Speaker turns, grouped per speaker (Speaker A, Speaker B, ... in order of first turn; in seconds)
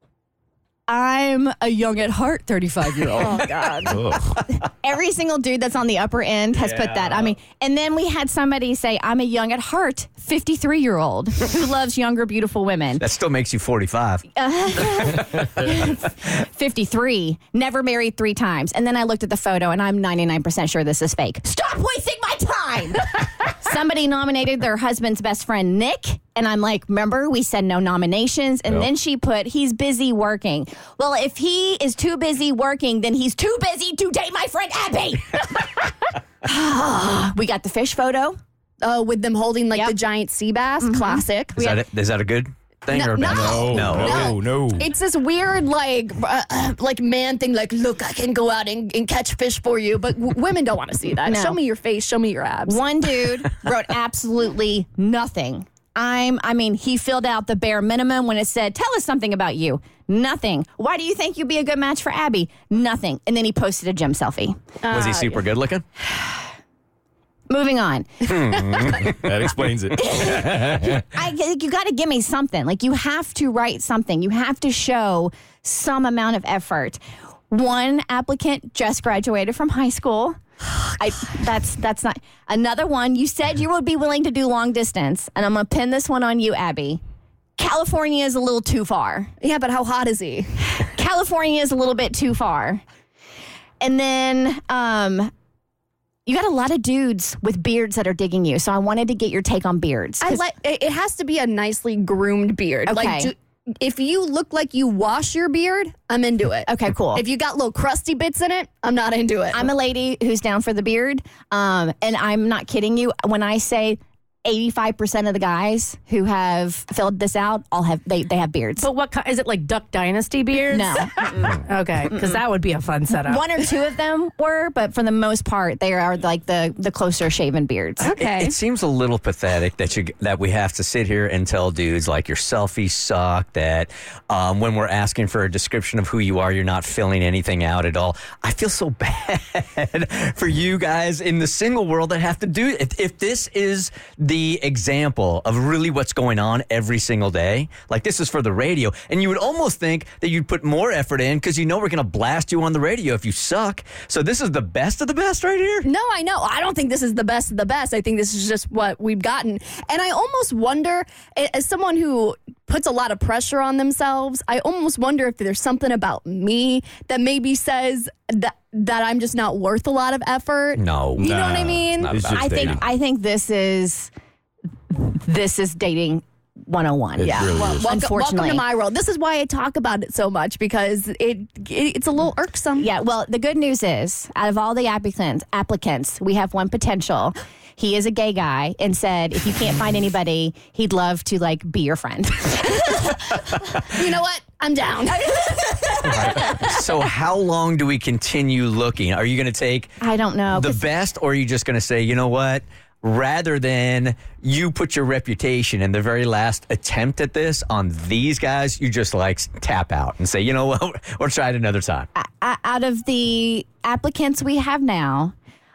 Speaker A: 0.9-3.5, 4.6-13.0, 14.3-35.9, 36.4-38.4, 51.3-51.6, 52.7-64.6, 66.1-66.4, 67.5-68.1, 71.1-80.4, 81.0-87.0, 87.6-89.3, 90.8-92.8, 93.8-95.3, 96.3-100.5, 102.9-103.3, 106.7-107.2, 109.5-118.9, 120.7-122.4, 123.1-128.1, 172.3-174.1, 174.9-178.6, 182.8-193.1, 200.0-200.8, 212.2-215.3
Speaker B: 3.2-4.0, 38.8-41.7, 42.9-52.8, 64.8-65.4, 89.4-90.7, 100.2-109.7, 128.0-128.5, 155.8-172.1, 177.4-182.9, 193.9-196.8
Speaker C: 3.9-4.4, 43.2-44.9, 69.2-71.0, 171.2-172.8, 177.2-177.9
Speaker D: 6.6-7.3, 13.0-14.2, 41.6-44.3, 64.9-65.8, 68.2-69.3, 128.1-155.9, 170.8-172.8, 196.1-199.9, 200.5-212.1
Speaker E: 40.9-41.2, 118.8-123.4